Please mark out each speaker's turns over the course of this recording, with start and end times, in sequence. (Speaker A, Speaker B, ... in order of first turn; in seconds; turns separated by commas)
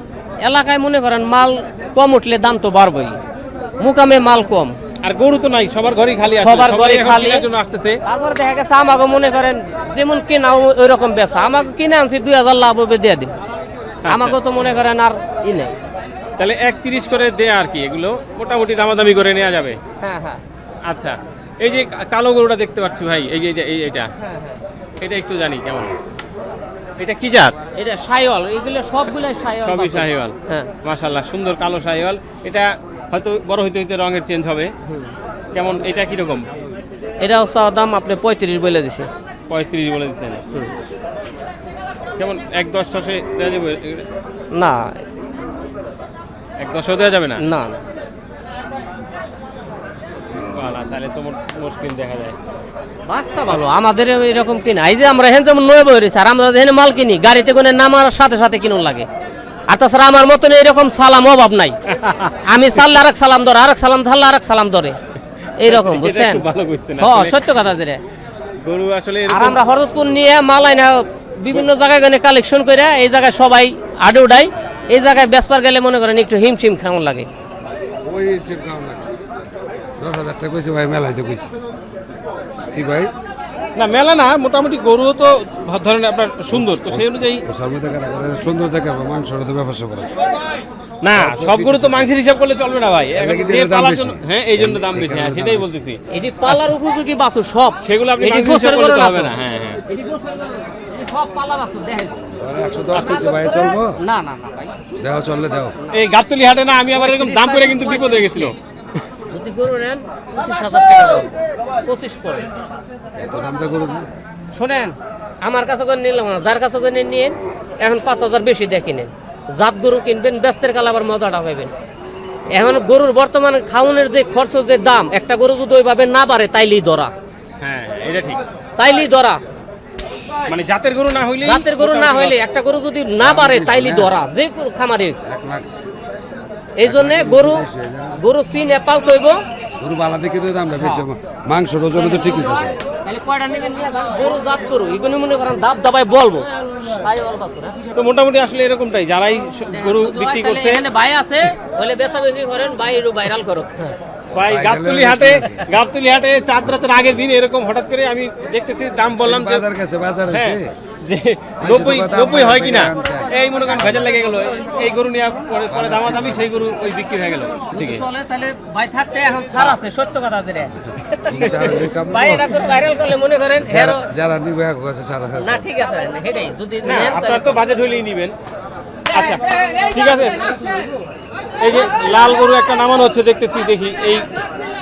Speaker A: 0.4-3.2, Speaker A: 3.8-4.7, Speaker B: 5.0-8.0, Speaker A: 6.3-7.4, Speaker A: 8.1-13.3, Speaker B: 14.1-14.4, Speaker A: 14.1-15.8, Speaker B: 16.4-19.8, Speaker A: 20.0-20.4, Speaker B: 20.9-24.1, Speaker A: 24.2-24.6, Speaker B: 25.0-25.9, Speaker B: 27.0-27.5, Speaker A: 27.8-30.7, Speaker B: 29.6-34.7, Speaker B: 35.5-36.5, Speaker A: 37.2-39.1, Speaker B: 39.5-40.4, Speaker B: 42.2-44.0, Speaker A: 44.5-45.0, Speaker B: 46.6-47.4, Speaker A: 47.4-47.8, Speaker B: 50.5-52.3, Speaker A: 53.1-59.1, Speaker A: 59.7-61.7, Speaker B: 62.0-62.3, Speaker A: 62.5-65.0, Speaker A: 65.6-66.4, Speaker B: 65.7-67.5, Speaker A: 67.0-68.0, Speaker B: 68.6-69.6, Speaker A: 69.3-77.3, Speaker C: 78.0-79.1, Speaker C: 80.0-81.5, Speaker C: 82.7-83.1, Speaker B: 83.8-87.4, Speaker C: 86.5-90.2, Speaker B: 91.0-96.6, Speaker C: 91.2-92.0, Speaker C: 93.1-95.7, Speaker A: 96.1-99.3, Speaker B: 97.8-99.8, Speaker A: 99.9-102.2, Speaker C: 102.3-103.9, Speaker B: 102.9-103.2, Speaker A: 103.0-103.4, Speaker A: 104.0-104.7, Speaker C: 105.0-105.7, Speaker B: 105.9-108.5, Speaker A: 106.9-108.5, Speaker A: 109.3-112.5, Speaker C: 113.2-114.1, Speaker A: 114.5-121.7, Speaker A: 122.5-127.1, Speaker B: 127.6-128.4, Speaker A: 128.8-129.4, Speaker B: 130.5-132.4, Speaker A: 131.4-135.2, Speaker C: 133.2-134.1, Speaker C: 135.2-135.7, Speaker A: 136.8-137.6, Speaker C: 136.8-138.2, Speaker A: 138.2-139.4, Speaker C: 139.8-142.7, Speaker A: 140.8-141.1, Speaker A: 143.0-147.7, Speaker B: 147.9-150.8, Speaker A: 149.7-153.9, Speaker B: 154.3-159.7, Speaker C: 154.4-155.6, Speaker C: 159.2-160.6, Speaker B: 160.3-168.0, Speaker C: 161.6-163.3, Speaker C: 165.7-166.4, Speaker A: 167.7-174.0, Speaker C: 171.3-172.5, Speaker B: 171.4-171.8, Speaker C: 173.6-175.6, Speaker A: 175.4-177.6, Speaker B: 176.8-178.3, Speaker B: 179.1-180.7, Speaker B: 181.6-184.2